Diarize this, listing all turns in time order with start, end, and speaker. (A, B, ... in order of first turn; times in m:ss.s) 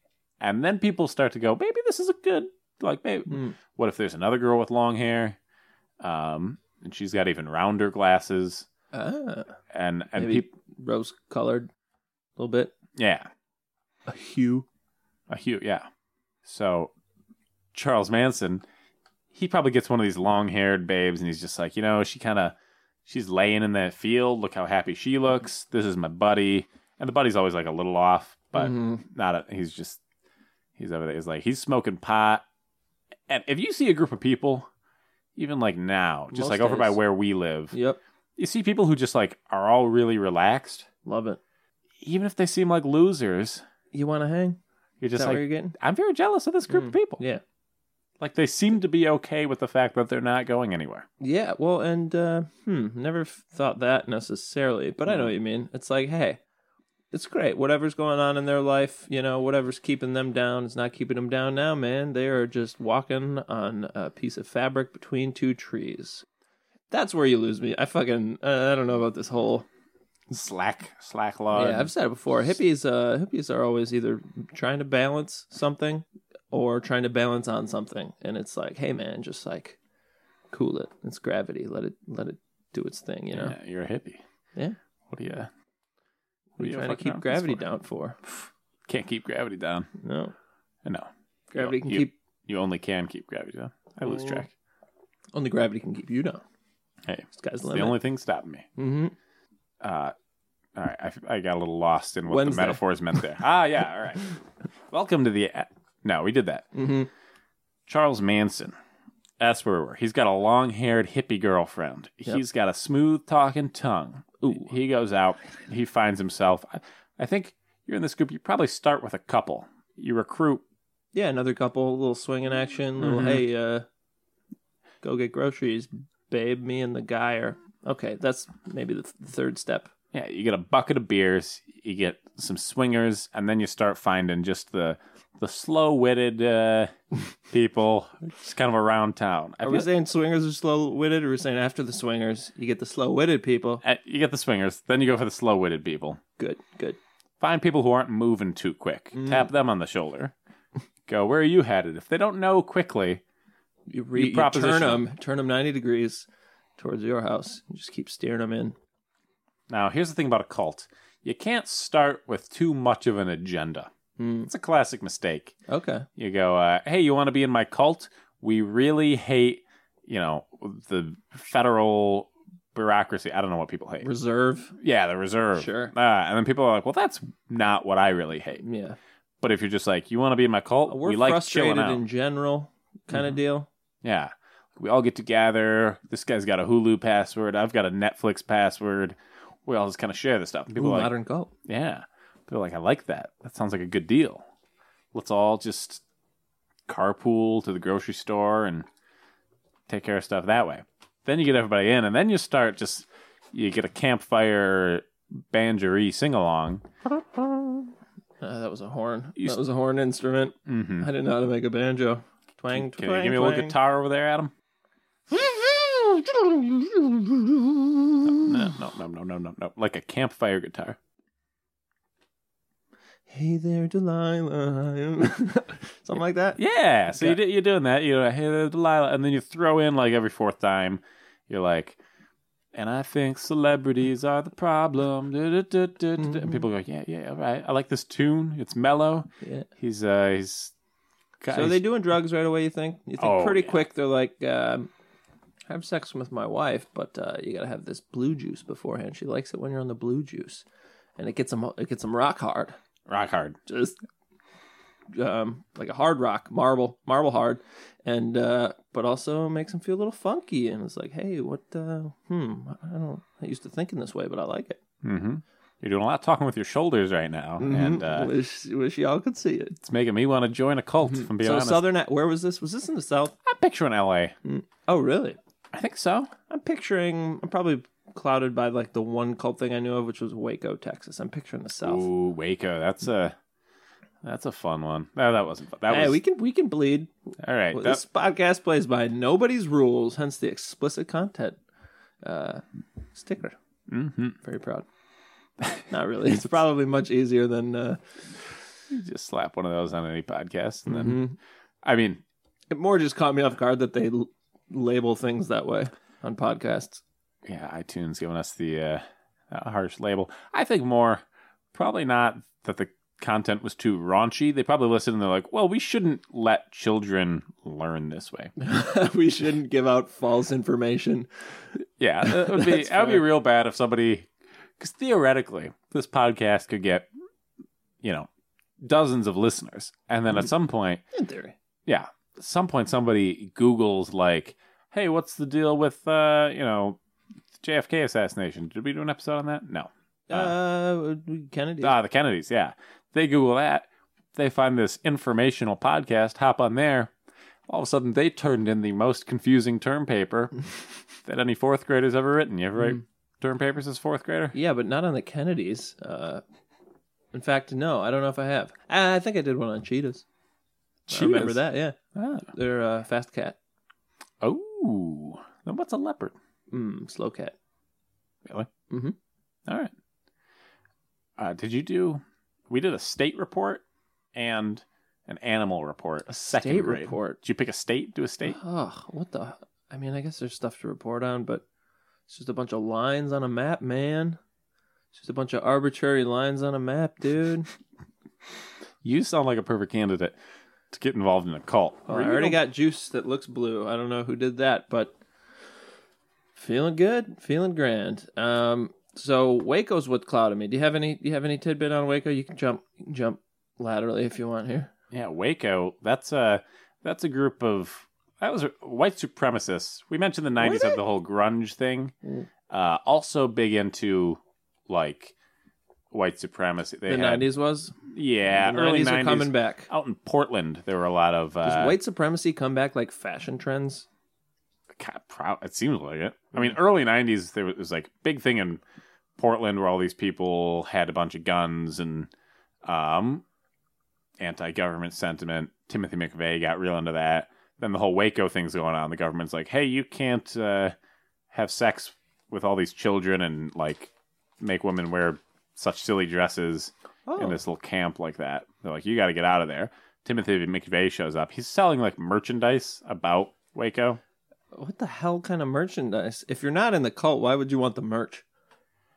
0:00.4-0:05.4 A
0:03.3-0:03.6 B
0:06.0-0:08.7 A
0:08.9-0:09.6 B
0:09.7-0:10.5 A
0:10.2-0:11.7 B
0:12.4-0:12.7 B
0:13.0-0:13.3 A
0:14.1-0:14.7 B
0:15.3-0:15.9 A
0:16.4-0:16.9 A
0:17.7-0:18.6 A
0:19.3-0:22.6 A
0:23.1-0:30.0 A
0:28.6-0:29.0 B
0:30.8-0:32.4 A
0:33.3-0:34.7 A
0:35.4-0:37.7 A
0:36.3-0:37.0 B
0:37.7-0:38.0 B
0:38.4-0:40.9 A
0:41.0-0:41.4 B
0:42.0-0:43.6 A
0:43.9-0:44.6 B
0:45.0-0:47.2 A
0:45.2-0:45.8 B
0:46.7-0:47.4 B
0:48.2-0:51.1 A
0:51.2-0:56.4 B
0:55.1-0:55.3 A
0:57.1-1:06.2 B
1:06.9-1:09.7 B
1:10.3-1:11.9 A
1:11.5-1:19.8 B
1:20.5-1:23.6 B
1:23.3-1:24.2 A
1:25.1-1:25.5 A
1:26.6-1:28.2 B
1:26.6-1:27.6 A
1:28.9-1:29.9 A
1:30.0-1:30.3 B
1:30.8-1:34.5 A
1:31.5-1:32.1 B
1:34.0-1:34.4 B
1:35.4-1:36.4 B
1:37.1-1:38.7 A
1:37.4-1:38.0 B
1:38.8-1:39.2 B
1:39.8-1:40.1 A
1:40.8-1:44.3 A
1:42.3-1:42.8 B
1:44.9-1:46.7 A
1:46.7-1:47.1 B
1:47.9-1:48.8 A
1:49.4-2:00.6 A
1:54.4-1:54.7 B
2:01.1-2:03.9 B
2:03.0-2:03.4 A
2:05.0-2:09.9 B
2:10.1-2:16.9 A
2:17.5-2:19.9 A
2:19.6-2:23.8 B
2:23.8-2:26.2 A
2:26.4-2:27.0 B
2:27.4-2:30.3 A
2:29.1-2:29.5 B
2:31.1-2:33.2 A
2:33.9-2:38.8 B
2:34.2-2:35.0 A
2:39.7-2:43.9 A
2:44.2-2:44.5 B
2:44.5-2:45.6 A
2:45.7-2:46.1 B
2:46.2-2:54.1 A
2:54.0-2:54.8 B
2:54.8-2:58.6 A
2:55.6-2:55.9 B
2:58.6-2:59.0 B
2:59.4-3:02.0 A
3:00.9-3:03.7 B
3:03.1-3:03.4 A
3:04.0-3:11.1 A
3:10.8-3:11.5 B
3:11.6-3:14.4 A
3:15.1-3:16.0 A
3:16.9-3:18.9 A
3:19.9-3:26.9 A
3:27.3-3:27.8 B
3:28.4-3:33.8 B
3:30.7-3:31.1 A
3:32.7-3:34.5 A
3:35.3-3:38.5 B
3:38.2-3:41.0 A
3:43.3-3:46.6 B
3:46.6-3:52.0 A
3:47.1-3:47.4 B
3:52.7-4:00.7 A
3:56.2-3:56.6 B
3:59.4-3:59.7 B
4:01.4-4:01.8 A
4:01.5-4:04.9 B
4:03.2-4:03.8 A
4:05.7-4:10.6 B
4:11.2-4:12.8 B
4:13.1-4:13.6 A
4:13.7-4:14.0 B
4:15.1-4:24.8 B
4:25.0-4:28.3 A
4:27.6-4:29.8 B
4:29.8-4:31.8 A
4:31.1-4:33.4 B
4:33.4-4:34.4 A
4:34.4-4:35.4 B
4:35.7-4:36.3 A
4:36.5-4:42.1 B
4:41.8-4:43.4 A
4:44.2-4:46.2 A
4:45.9-4:47.1 B
4:47.4-4:48.0 A
4:47.7-4:51.6 B
4:52.2-4:52.6 B
4:53.2-4:53.6 B
4:53.9-4:54.4 A
4:54.4-4:54.9 B
4:55.6-4:56.5 A
4:55.9-4:58.0 B
4:58.9-5:01.2 A
5:00.9-5:01.4 B
5:01.8-5:02.2 A
5:02.7-5:07.0 B
5:07.4-5:11.2 A
5:11.7-5:18.5 A
5:18.6-5:21.4 B
5:22.0-5:27.1 A
5:22.2-5:23.2 B
5:28.0-5:28.3 A
5:28.8-5:31.0 A
5:31.1-5:31.6 B
5:31.9-5:37.0 A
5:37.6-5:40.6 A
5:40.3-5:42.0 B
5:41.8-5:47.1 A
5:47.7-5:54.6 A
5:54.5-5:56.4 B
5:57.3-6:00.2 B
6:01.1-6:02.5 A
6:01.1-6:03.6 B
6:04.4-6:06.4 A
6:06.7-6:07.6 B
6:08.4-6:08.7 A
6:08.9-6:09.2 B
6:09.7-6:09.9 A
6:11.4-6:13.8 A
6:14.3-6:18.6 A
6:16.3-6:17.4 B
6:18.4-6:21.6 B
6:22.3-6:24.4 B
6:25.1-6:27.7 B
6:29.0-6:30.4 A
6:30.9-6:32.6 A
6:32.1-6:35.2 B
6:36.6-6:44.9 B
6:45.1-6:52.2 A
6:50.6-6:51.0 B
6:52.7-6:55.3 A
6:56.1-6:57.5 A
6:57.1-6:58.0 B
6:58.0-7:02.0 A
6:58.5-6:59.9 B
7:01.6-7:04.1 B
7:05.0-7:08.8 A
7:09.4-7:12.3 A
7:12.8-7:13.4 A
7:14.4-7:21.0 A
7:21.5-7:34.2 A
7:27.3-7:27.6 B
7:34.7-7:38.4 B